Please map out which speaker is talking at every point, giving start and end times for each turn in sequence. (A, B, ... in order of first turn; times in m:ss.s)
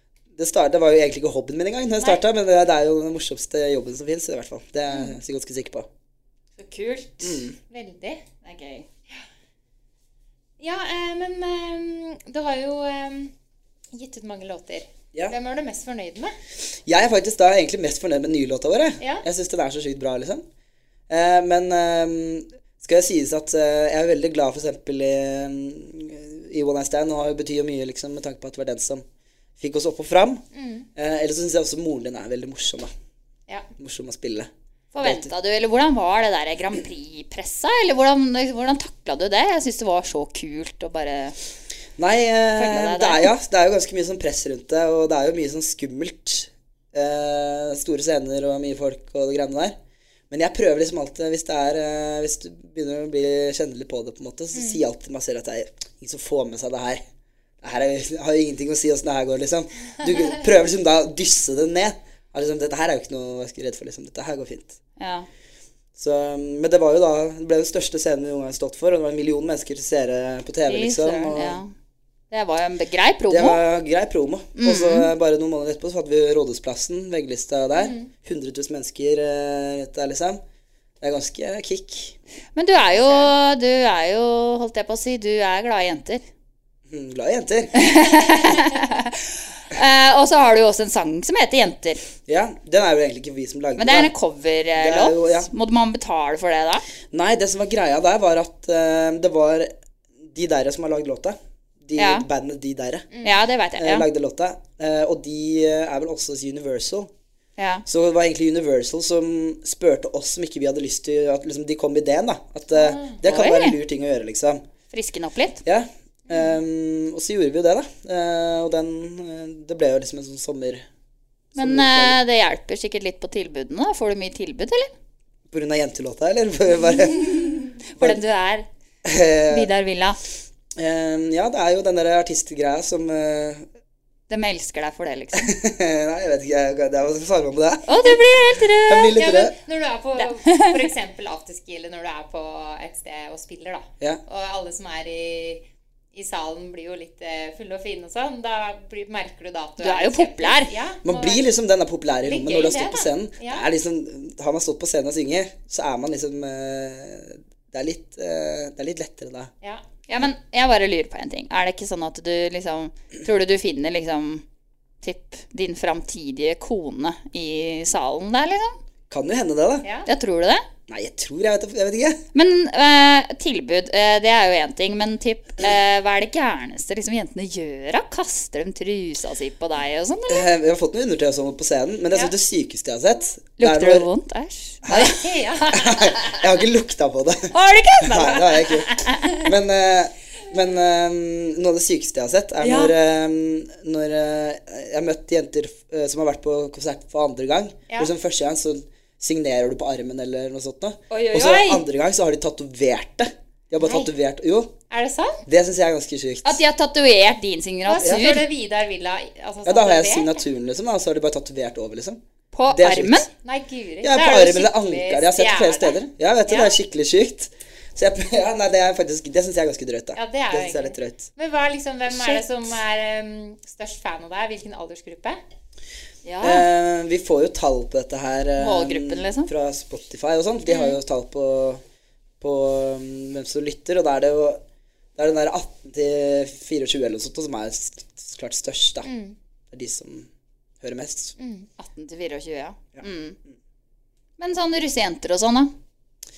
0:00.3-0:05.9 A
0:06.6-0:07.4 B
0:07.2-0:07.6 A
0:07.7-0:08.2 C
0:08.4-0:08.9 B
0:10.6-0:13.3 C
0:13.9-0:16.3 C
0:16.9-0:20.4 A
0:21.1-0:29.0 A
0:29.6-0:30.4 A
0:30.5-0:30.9 C
0:31.0-0:32.9 A
0:33.8-0:34.5 A
0:34.9-0:41.4 B
0:35.0-0:35.3 A
0:42.0-0:49.8 A
0:42.6-0:43.3 B
0:50.3-0:57.0 A
0:54.5-0:54.8 C
0:57.6-1:04.8 A
1:05.0-1:05.3 B
1:06.0-1:11.6 A
1:10.7-1:11.7 B
1:12.3-1:13.6 B
1:13.3-1:20.4 A
1:14.6-1:15.1 B
1:17.8-1:18.1 C
1:21.0-1:22.2 A
1:22.6-1:26.2 B
1:26.9-1:27.8 A
1:27.8-1:32.0 B
1:32.3-1:34.1 A
1:33.8-1:36.8 B
1:34.8-1:35.5 A
1:37.1-1:39.7 A
1:40.2-1:43.1 A
1:42.0-1:42.2 B
1:43.2-1:44.1 B
1:43.8-1:47.1 A
1:47.6-1:47.8 B
1:47.9-1:54.6 A
1:52.7-1:53.2 C
1:53.2-1:53.8 B
1:54.9-1:55.6 B
1:55.6-2:00.9 A
2:01.5-2:02.2 A
2:01.6-2:04.9 B
2:05.5-2:08.2 A
2:07.3-2:08.7 B
2:09.0-2:09.7 A
2:09.5-2:10.2 B
2:10.8-2:13.7 A
2:14.3-2:15.6 B
2:15.3-2:19.6 A
2:17.9-2:19.2 B
2:19.2-2:31.4 C
2:20.2-2:20.9 B
2:29.8-2:30.7 B
2:31.0-2:39.5 A
2:32.2-2:33.7 C
2:40.1-2:44.4 B
2:45.0-2:48.8 B
2:49.1-2:49.8 A
2:49.8-2:50.1 C
2:50.1-2:50.6 B
2:50.9-2:52.2 A
2:52.3-3:00.5 B
3:00.3-3:04.1 A
3:03.6-3:05.7 B
3:04.8-3:05.1 A
3:04.9-3:06.0 C
3:05.7-3:24.7 A
3:07.5-3:09.4 B
3:12.6-3:12.9 B
3:21.1-3:21.8 B
3:23.8-3:24.1 C
3:24.9-3:25.4 C
3:25.5-3:26.6 A
3:26.4-3:28.5 B
3:27.9-3:30.4 C
3:28.0-3:28.3 A
3:29.6-3:33.3 A
3:32.5-3:33.3 B
3:33.4-3:36.8 C
3:34.0-3:41.3 A
3:40.1-3:45.4 C
3:42.1-3:42.4 B
3:46.2-3:46.7 B
3:46.4-3:51.8 A
3:48.6-3:49.5 B
3:52.4-3:54.6 A
3:55.2-3:59.1 A
3:59.0-3:59.4 C
3:59.7-4:00.3 A
4:00.8-4:01.4 A
4:01.4-4:01.7 C
4:01.8-4:03.4 B
4:03.0-4:03.6 A
4:04.4-4:05.7 B